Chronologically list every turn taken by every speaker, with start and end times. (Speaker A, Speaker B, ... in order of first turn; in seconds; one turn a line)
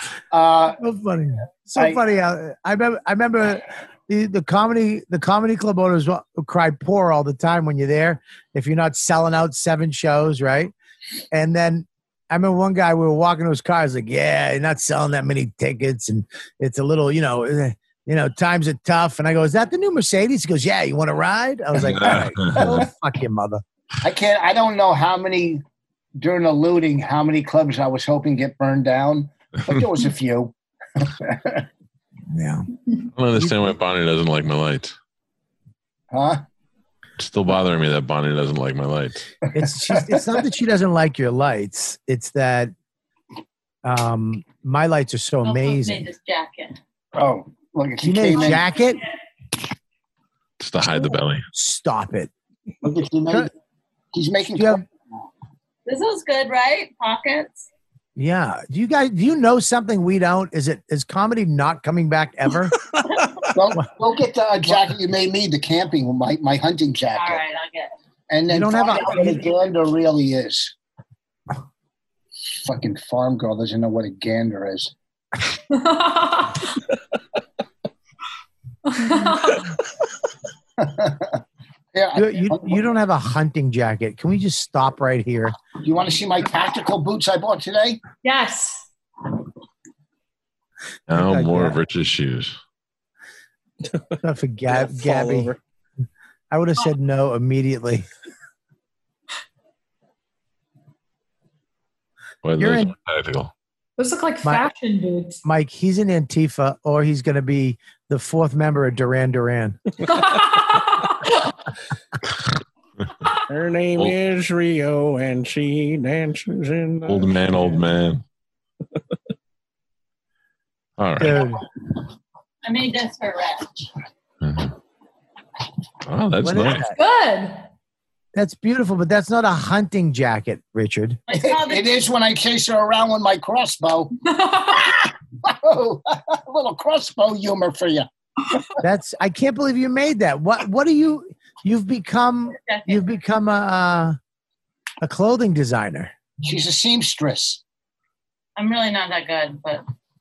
Speaker A: 0.3-0.8
Speaker B: 0.8-10.7
Speaker A: 1.8-2.0
Speaker B: 11.3-23.6
Speaker C: 21.8-22.7
Speaker A: 22.6-22.9
Speaker A: 24.0-25.6
Speaker A: 26.2-31.7
Speaker B: 32.3-32.7
Speaker C: 33.2-35.0
Speaker B: 33.4-33.8
Speaker A: 36.1-36.4
Speaker C: 37.2-39.2
Speaker B: 39.5-42.7
Speaker A: 39.6-40.3
Speaker B: 43.8-46.1
Speaker D: 45.4-46.8
Speaker A: 47.1-48.6
Speaker B: 48.0-49.0
Speaker C: 50.6-51.4
Speaker B: 51.5-52.3
Speaker A: 52.8-53.5
Speaker A: 54.1-54.9
Speaker B: 54.6-54.8
Speaker D: 55.9-57.7
Speaker B: 58.2-62.8
Speaker A: 63.5-67.4
Speaker D: 67.1-67.9
Speaker A: 68.3-70.7
Speaker B: 68.5-69.4
Speaker A: 72.6-74.9
Speaker E: 75.7-76.8
Speaker E: 78.9-79.7
Speaker A: 80.8-81.4
Speaker A: 81.9-82.8
Speaker B: 82.2-85.6
Speaker A: 85.8-88.0
Speaker E: 88.2-88.8
Speaker C: 91.1-92.6
Speaker B: 91.1-91.8
Speaker B: 94.2-95.5
Speaker F: 94.7-95.6
Speaker B: 96.5-98.1
Speaker C: 102.4-103.5
Speaker B: 102.6-102.9
Speaker E: 104.0-105.4
Speaker B: 105.4-109.8
Speaker E: 110.1-111.5
Speaker F: 113.5-117.8
Speaker C: 117.1-118.2
Speaker C: 121.0-121.5
Speaker B: 121.2-121.6
Speaker D: 122.6-123.9
Speaker C: 124.4-124.7
Speaker C: 126.1-126.9
Speaker B: 126.4-127.0
Speaker E: 127.0-127.7
Speaker B: 128.3-131.2
Speaker D: 131.3-131.9
Speaker A: 131.3-138.1
Speaker B: 138.8-144.2
Speaker D: 142.6-143.0
Speaker B: 145.0-146.1
Speaker A: 146.4-147.6
Speaker D: 148.6-149.8